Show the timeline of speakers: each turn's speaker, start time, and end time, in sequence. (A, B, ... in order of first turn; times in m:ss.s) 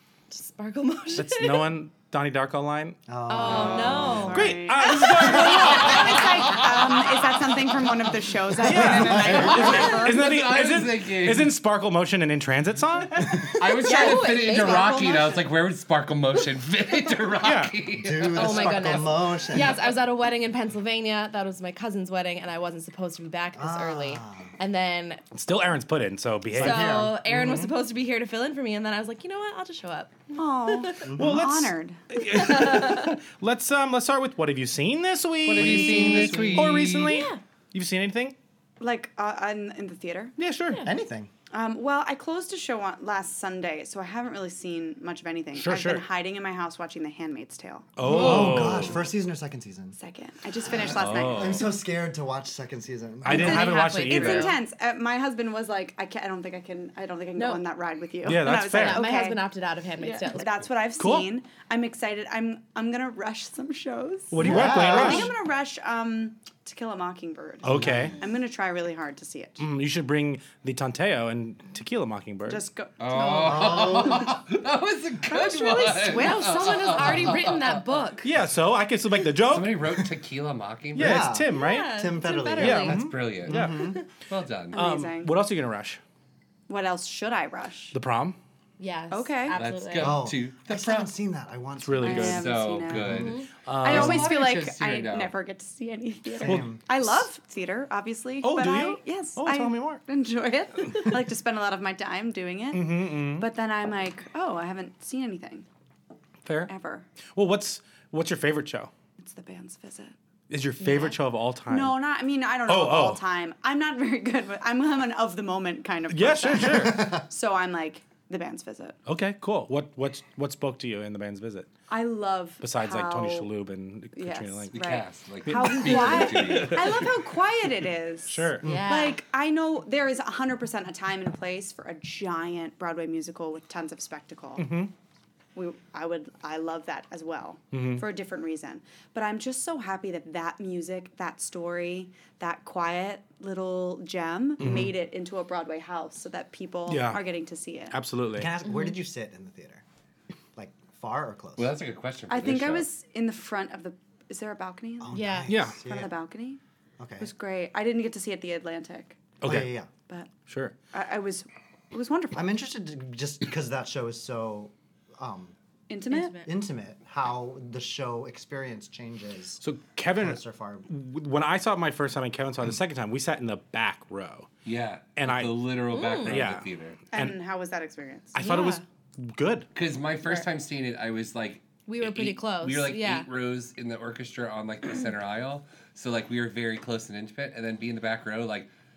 0:00.3-0:01.8 A
0:01.2-0:03.0 B
0:03.1-0:04.4 C
0:03.3-0:04.5 A
0:03.4-0:10.4 D
0:04.3-0:06.3 B
0:08.6-0:13.5 B
0:08.7-0:09.9 C
0:09.6-0:11.5 E
0:13.6-0:18.9 E
0:13.8-0:15.4 A
0:13.9-0:14.8 D
0:17.4-0:17.7 B
0:18.0-0:19.9 C
0:18.3-0:25.2 A
0:23.6-0:24.5 C
0:25.3-0:27.7 B
0:26.5-0:27.3 C
0:26.6-0:30.9 A
0:30.3-0:32.2 D
0:31.0-0:31.4 C
0:31.1-0:38.4 B
0:32.2-0:33.1 A
0:35.4-0:37.1 E
0:35.5-0:37.0 C
0:37.0-0:37.4 A
0:38.8-0:40.4 D
0:40.4-0:40.8 B
0:40.8-0:41.3 C
0:41.5-0:47.9 D
0:45.5-0:46.0 B
0:48.0-0:49.0 B
0:48.0-0:50.0 C
0:50.0-0:51.6 D
0:50.6-0:53.6 C
0:50.8-0:51.6 E
0:51.1-0:51.6 B
0:53.2-0:54.6 B
0:53.3-0:54.6 A
0:53.3-0:59.5 D
0:57.4-0:57.6 A
0:58.2-0:59.1 B
0:58.7-1:00.6 A
1:00.0-1:09.6 D
1:01.0-1:01.3 B
1:04.3-1:05.3 B
1:04.4-1:05.3 C
1:07.6-1:08.2 B
1:07.6-1:08.1 C
1:09.6-1:12.6 B
1:12.5-1:13.8 D
1:13.0-1:18.0 E
1:13.4-1:14.3 C
1:15.3-1:18.3 A
1:15.5-1:16.7 D
1:18.2-1:19.8 B
1:19.4-1:21.3 E
1:20.9-1:22.0 B
1:21.0-1:24.0 C
1:21.5-1:23.0 A
1:22.6-1:23.9 B
1:22.8-1:23.6 E
1:24.3-1:24.8 E
1:24.7-1:25.4 D
1:24.7-1:26.0 B
1:26.7-1:28.0 D
1:27.9-1:28.4 B
1:28.8-1:30.2 A
1:29.1-1:29.6 D
1:29.5-1:31.1 E
1:30.0-1:32.2 C
1:31.8-1:32.5 B
1:32.0-1:45.7 D
1:32.1-1:35.3 E
1:32.9-1:33.3 C
1:33.2-1:33.5 A
1:33.6-1:34.5 B
1:36.4-1:36.8 C
1:36.4-1:37.1 B
1:38.4-1:40.0 B
1:42.7-1:43.5 B
1:46.4-1:46.7 B
1:46.6-1:47.1 D
1:47.3-1:48.9 B
1:49.2-1:50.1 D
1:50.5-1:52.0 B
1:50.8-1:51.1 D
1:51.7-1:59.0 D
1:52.6-1:53.2 B
1:56.1-1:57.2 B
1:56.6-1:57.2 C
1:59.0-2:01.7 B
2:01.9-2:03.5 D
2:02.6-2:04.7 B
2:04.1-2:14.7 D
2:04.7-2:07.0 E
2:05.5-2:07.1 B
2:08.3-2:08.7 B
2:08.6-2:08.9 C
2:08.6-2:09.2 A
2:14.6-2:14.9 B
2:15.5-2:28.0 D
2:17.7-2:18.0 B
2:24.6-2:24.9 B
2:24.6-2:24.9 C
2:26.9-2:27.2 B
2:27.9-2:28.5 B
2:28.3-2:29.8 C
2:28.6-2:28.9 A
2:30.5-2:31.8 C
2:31.6-2:32.9 E
2:32.3-2:36.6 D
2:35.0-2:36.1 C
2:35.1-2:35.5 A
2:35.5-2:35.8 B
2:37.0-2:37.3 C
2:37.2-2:39.3 D
2:39.4-2:39.7 B
2:39.4-2:39.9 C
2:40.1-2:40.3 D
2:40.5-2:40.7 B
2:40.9-2:42.6 D
2:42.3-2:45.5 C
2:45.9-2:46.4 D
2:46.1-2:46.5 A
2:46.4-2:49.6 C
2:49.6-2:54.5 B
2:50.1-2:50.9 C
2:54.6-2:57.0 E
2:55.2-2:55.6 B
2:55.9-2:56.4 A
2:56.2-2:57.4 B
2:57.1-2:58.5 D
2:58.3-2:59.7 B
2:58.4-2:58.8 A
2:59.7-3:08.7 E
3:01.9-3:03.3 A